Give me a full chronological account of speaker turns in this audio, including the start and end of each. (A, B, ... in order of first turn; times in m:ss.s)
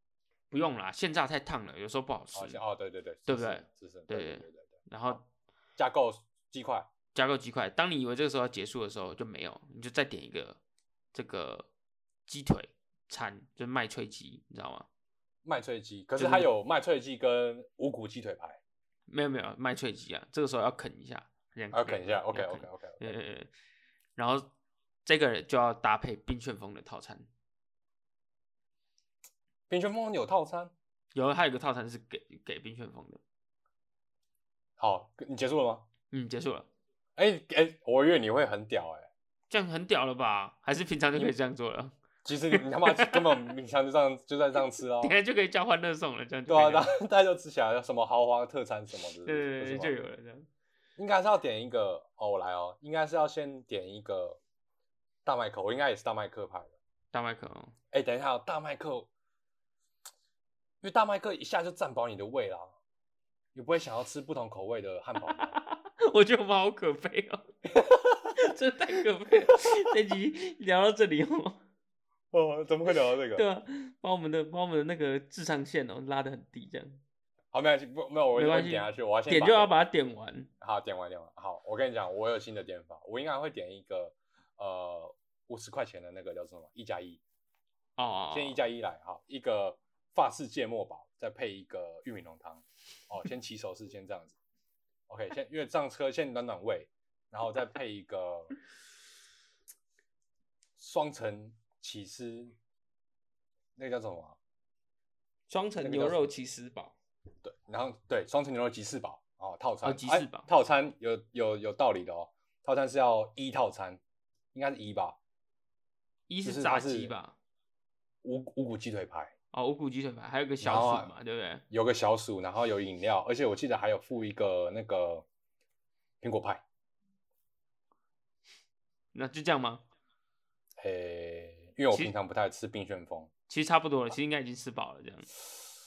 0:00.5-0:02.6 A
0:02.3-0:05.2 B
0:03.3-0:05.2 A
0:05.8-0:06.9 B
0:07.1-0:10.6 A
0:11.1-0:11.7 A
0:12.3-0:14.9 A
0:15.4-0:18.6 B
0:16.2-0:16.5 A
0:19.1-0:23.5 A
0:21.7-0:23.1 B
0:24.2-0:24.5 A
0:25.0-0:27.3 A
0:29.7-0:30.7 B
0:31.1-0:33.2 A
0:34.8-0:35.8 B
0:36.1-0:36.7 A
0:37.2-0:39.1 B
0:39.5-0:41.9 A
0:42.2-0:45.1 B
0:42.5-0:43.5 A
0:45.0-0:46.9 A
0:46.5-0:49.9 B
0:49.2-0:50.5 A
0:51.0-0:54.4 B
0:55.2-0:56.7 B
0:57.1-0:57.7 A
0:57.9-0:59.1 B
1:00.8-1:02.7 B
1:03.5-1:05.6 B
1:05.2-1:07.5 A
1:07.7-1:08.3 B
1:08.4-1:11.6 A
1:12.3-1:13.4 B
1:13.3-1:17.0 A
1:17.5-1:19.7 B
1:18.3-1:20.5 A
1:20.6-1:27.2 B
1:28.0-1:28.6 A
1:28.3-1:34.4 B
1:35.1-1:38.5 B
1:40.8-1:42.5 B
1:43.8-1:44.4 B
1:45.5-1:47.0 A
1:45.8-1:46.3 B
1:47.4-1:54.0 B
1:49.8-1:50.5 A
1:54.5-1:55.2 B
1:56.3-1:57.4 A
1:56.4-1:57.1 B
1:58.2-1:59.3 B
1:59.5-2:01.6 A
2:00.6-2:01.1 B
2:01.7-2:05.2 B
2:06.2-2:06.6 B
2:09.1-2:09.8 A
2:10.8-2:13.3 B
2:13.5-2:15.3 A